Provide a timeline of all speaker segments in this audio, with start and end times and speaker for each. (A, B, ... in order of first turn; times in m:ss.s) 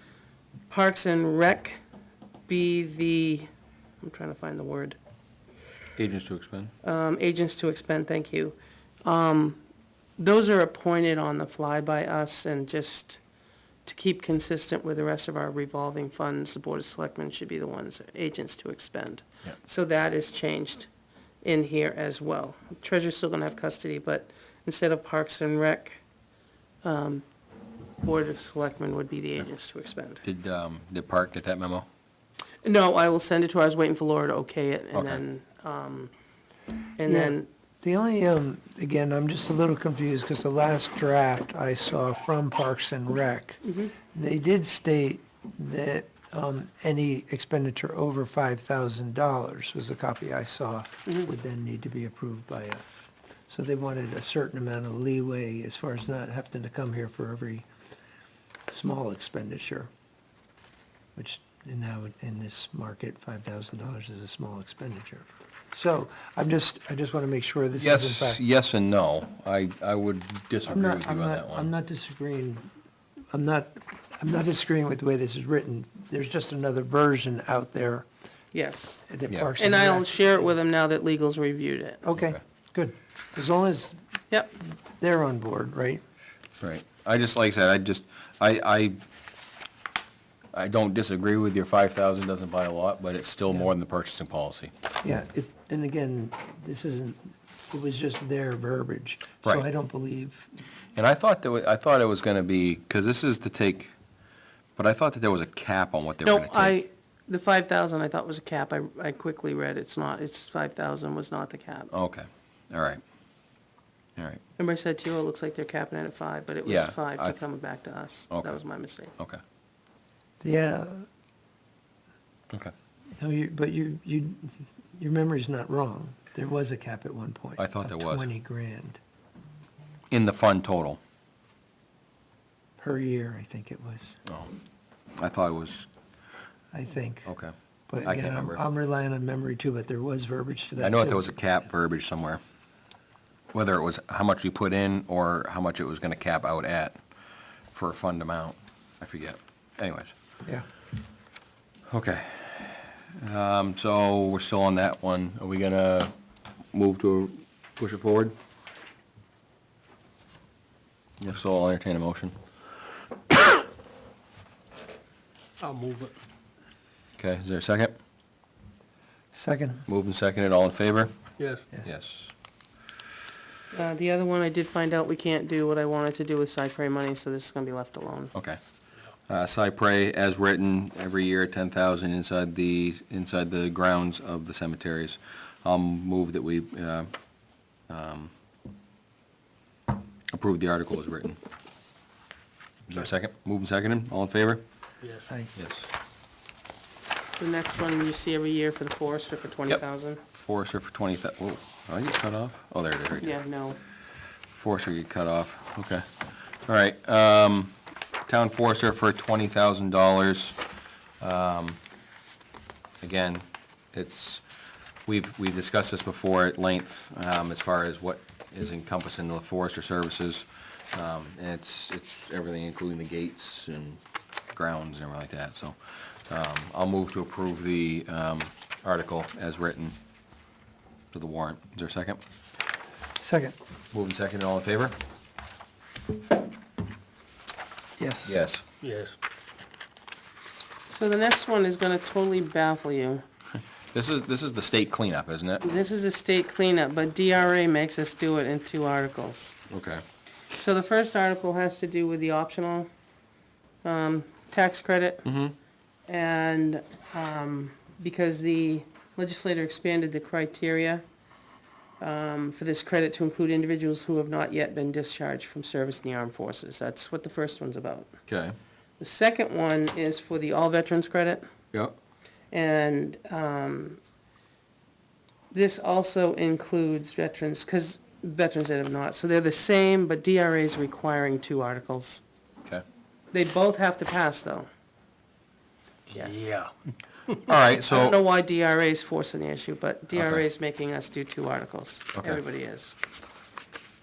0:00.7-0:01.8 A
0:02.5-0:03.5 A
0:04.0-0:05.0 A
0:06.0-0:06.7 B
0:06.8-0:09.6 A
0:10.2-0:13.2 A
0:13.8-0:20.9 A
0:21.4-0:26.0 A
0:26.8-0:27.2 A
0:28.0-0:30.2 A
0:30.2-0:31.8 B
0:32.6-0:36.1 A
0:34.9-0:35.2 B
0:37.0-0:37.5 A
0:37.0-0:57.7 C
0:43.6-0:43.9 A
0:58.7-0:59.9 C
1:01.1-1:08.4 C
1:07.8-1:11.7 B
1:10.7-1:12.7 C
1:13.3-1:18.0 C
1:18.5-1:19.0 A
1:19.1-1:20.1 C
1:19.3-1:19.5 B
1:19.6-1:22.0 A
1:22.0-1:24.0 C
1:24.9-1:26.0 C
1:26.6-1:29.0 B
1:30.5-1:34.7 B
1:35.0-1:40.5 C
1:41.0-1:43.9 B
1:44.8-1:46.8 B
1:46.2-1:51.9 A
1:51.9-1:53.0 B
1:54.6-1:59.1 A
1:56.6-1:57.4 B
1:58.3-1:58.6 B
2:00.4-2:01.1 C
2:03.2-2:09.0 C
2:07.6-2:08.3 B
2:10.1-2:11.0 B
2:12.8-2:14.2 C
2:15.2-2:15.9 B
2:16.7-2:17.3 C
2:17.2-2:17.5 B
2:17.9-2:21.2 C
2:18.0-2:18.6 B
2:20.8-2:22.4 B
2:23.5-2:27.0 B
2:27.7-2:30.1 B
2:31.9-2:36.1 B
2:36.7-2:38.3 B
2:41.2-2:42.3 B
2:45.6-2:46.2 D
2:47.2-2:47.9 B
2:49.3-2:49.8 C
2:49.9-2:51.1 B
2:51.4-2:51.6 D
2:51.8-2:52.3 B
2:53.7-2:58.3 A
2:58.3-2:58.6 B
2:59.3-3:07.1 B
3:07.9-3:08.3 B
3:10.3-3:11.4 B
3:12.9-3:14.6 B
3:15.0-3:15.3 D
3:15.6-3:15.9 B
3:17.4-3:20.2 A
3:20.3-3:23.3 B
3:23.2-3:23.8 A
3:24.5-3:30.6 B
3:31.2-3:31.8 B
3:33.0-3:34.4 B
3:35.0-3:44.0 B
3:44.5-3:50.0 B
3:51.1-3:52.2 B
3:53.2-3:53.6 C
3:53.9-3:55.0 B
3:58.0-3:58.4 C
3:58.2-3:58.6 B
3:58.8-3:59.2 D
4:00.9-4:03.2 A
4:03.9-4:05.6 B
4:05.6-4:09.6 A
4:09.7-4:10.0 B
4:10.5-4:12.9 A
4:13.8-4:15.2 A
4:15.2-4:15.5 B
4:16.1-4:21.0 A
4:22.0-4:28.1 A
4:28.3-4:28.5 B
4:29.0-4:31.4 A
4:32.5-4:34.0 A
4:35.5-4:42.2 A
4:43.3-4:44.7 A
4:46.1-4:46.7 D
4:46.1-4:46.6 A
4:47.4-4:48.2 B
4:47.9-4:52.9 A
4:50.2-4:50.4 B